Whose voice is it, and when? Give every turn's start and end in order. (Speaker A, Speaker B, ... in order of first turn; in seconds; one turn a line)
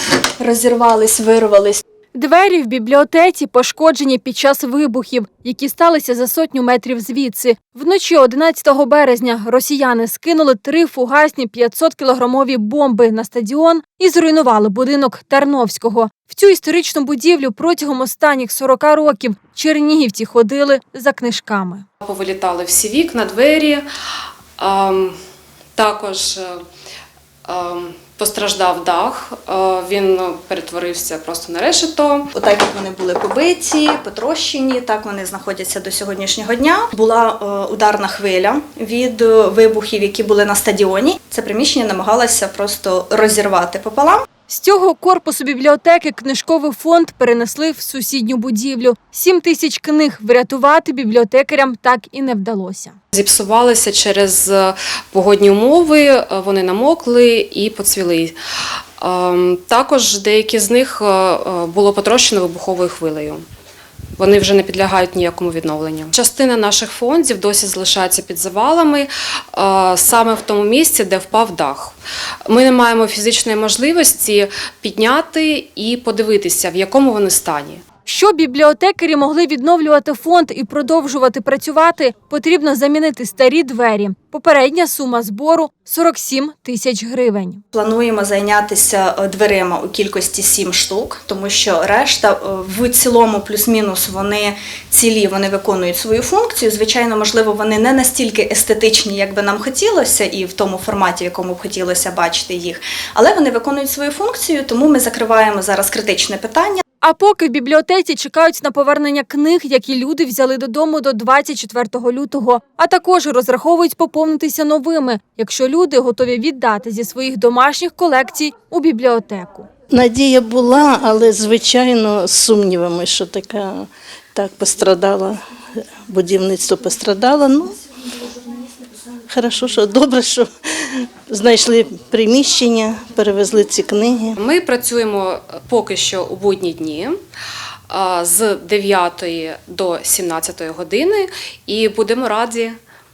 Speaker A: 0.4-1.8
Speaker B: 2.1-21.8
Speaker C: 22.0-23.9
Speaker C: 24.6-25.1
Speaker C: 25.8-26.6
Speaker C: 27.5-32.3
Speaker A: 32.3-44.3
Speaker B: 44.5-53.0
Speaker C: 53.1-58.4
Speaker C: 59.0-63.5
Speaker C: 64.2-71.9
Speaker C: 72.5-77.8
Speaker B: 78.1-87.6
Speaker A: 87.7-106.8
Speaker B: 107.0-119.7
Speaker D: 119.9-125.4
Speaker D: 126.1-128.4
Speaker D: 129.3-134.4
Speaker C: 134.4-137.2
Speaker C: 137.9-142.8